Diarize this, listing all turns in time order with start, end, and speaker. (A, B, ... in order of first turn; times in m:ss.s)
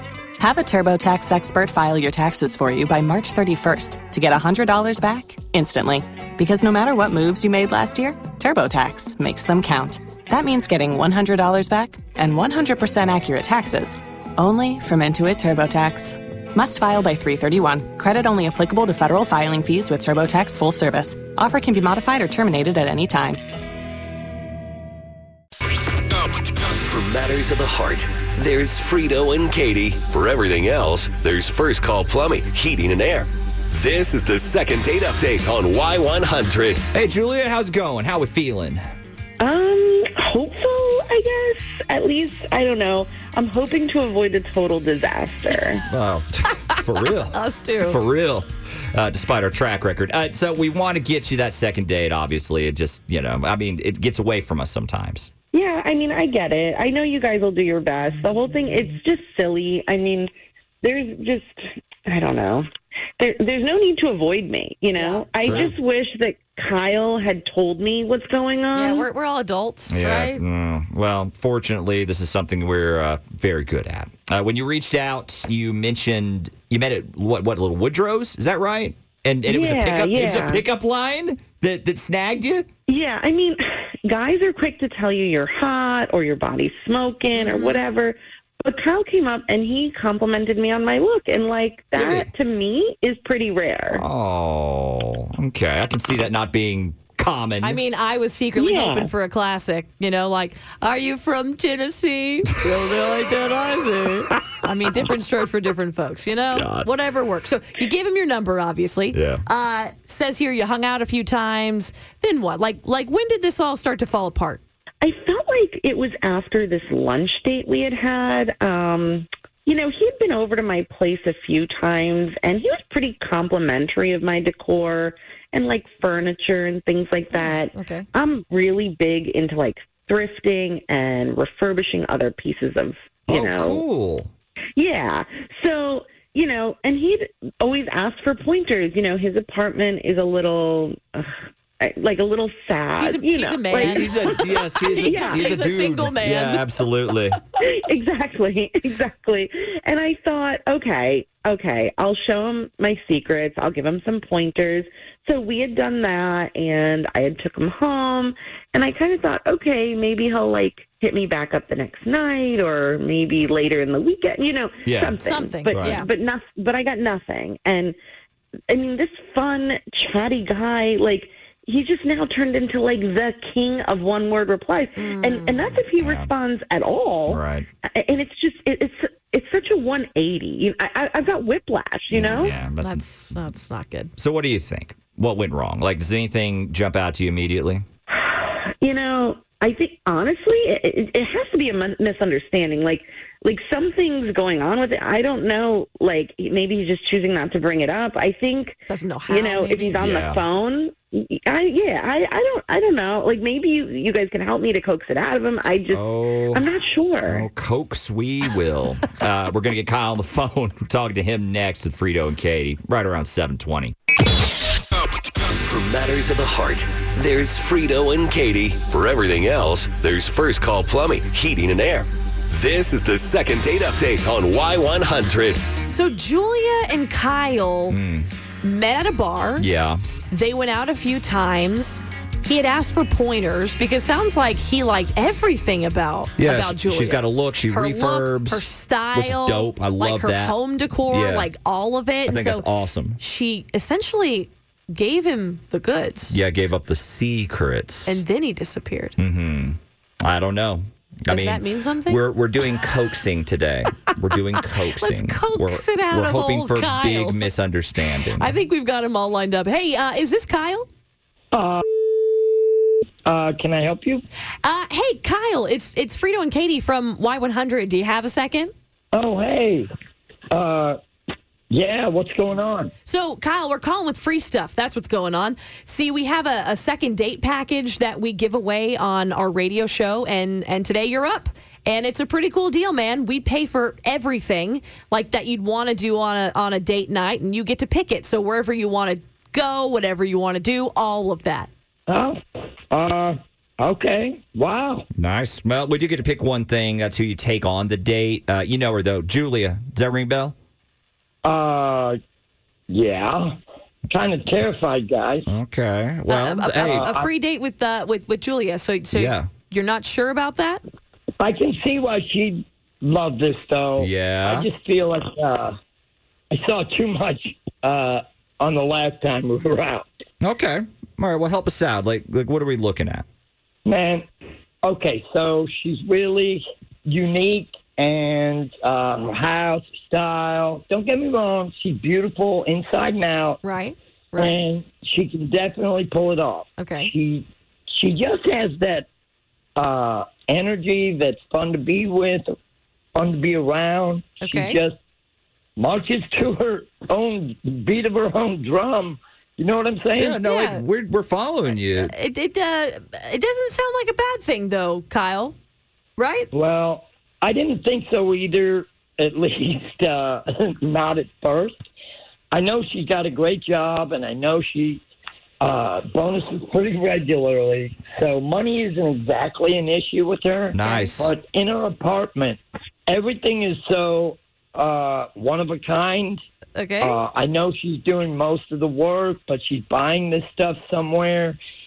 0:00.4-0:23.4 A
0:26.1-0:36.8 B
0:36.9-0:38.8 C
0:39.4-0:45.8 D
0:45.9-0:55.3 C
0:47.3-0:48.0 E
0:55.5-1:00.3 D
1:00.8-1:02.6 D
1:03.2-1:09.1 D
1:05.0-1:05.7 E
1:05.4-1:05.7 C
1:08.7-1:10.4 E
1:09.9-1:22.7 C
1:19.4-1:20.6 D
1:22.9-1:34.0 D
1:27.3-1:27.8 E
1:32.0-1:32.3 C
1:33.9-1:37.8 C
1:37.6-1:54.6 E
1:38.6-1:39.1 D
1:46.4-1:46.9 C
1:49.1-1:49.4 C
1:55.0-2:13.8 D
2:07.3-2:08.0 E
2:13.3-2:14.3 C
2:14.8-2:21.3 D
2:21.8-2:24.4 D
2:23.0-2:26.7 E
2:23.8-2:27.4 C
2:25.0-2:25.5 D
2:27.6-2:48.0 D
2:44.8-2:45.2 C
2:45.2-2:46.1 E
2:45.7-2:46.0 C
2:48.7-3:02.6 D
2:55.0-2:55.8 E
2:56.0-2:56.3 C
2:57.3-2:57.7 C
3:02.1-3:03.1 C
3:02.8-3:04.1 E
3:04.2-3:07.8 C
3:08.1-3:27.5 D
3:18.9-3:20.0 E
3:20.0-3:20.4 C
3:25.9-3:26.6 C
3:27.2-3:33.9 C
3:35.0-3:45.6 B
3:45.9-3:48.0 E
3:47.9-3:48.3 C
3:48.6-3:49.7 E
3:49.6-3:50.0 C
3:50.3-4:02.7 E
3:56.4-4:00.6 C
4:01.1-4:01.5 C
4:02.3-4:03.2 C
4:03.2-4:06.4 E
4:06.3-4:08.2 C
4:08.0-4:09.2 E
4:09.2-4:18.6 C
4:11.3-4:12.9 E
4:14.9-4:17.4 E
4:18.1-4:20.9 E
4:21.5-4:22.0 F
4:23.2-4:24.2 F
4:24.6-4:28.7 E
4:29.1-4:29.9 F
4:30.5-4:31.0 F
4:31.7-4:32.9 F
4:33.0-4:51.7 E
4:52.1-4:52.4 F
4:52.9-4:55.0 F
4:55.2-5:00.5 C
5:01.4-5:02.2 F
5:02.9-5:03.6 F
5:04.1-5:05.5 F
5:05.5-5:07.1 C
5:06.3-5:10.8 E
5:06.8-5:07.3 F
5:09.1-5:09.5 C
5:11.4-5:15.7 F
5:14.0-5:14.7 C
5:16.5-5:20.1 F
5:20.4-5:23.2 C
5:23.9-5:24.2 F
5:24.8-5:33.6 F
5:33.6-5:34.6 E
5:34.4-5:39.1 F
5:36.8-5:37.1 E
5:39.8-5:42.5 F
5:43.2-5:44.9 F
5:44.4-5:44.8 E
5:45.8-5:50.5 F
5:50.2-5:52.1 C
5:50.5-5:50.8 E
5:52.0-5:55.6 E
5:56.2-5:56.5 E
5:56.5-6:01.7 F
6:02.5-6:05.0 F
6:05.6-6:16.4 F
6:10.7-6:11.3 C
6:10.8-6:11.3 E
6:16.8-6:17.2 E
6:17.0-6:21.6 F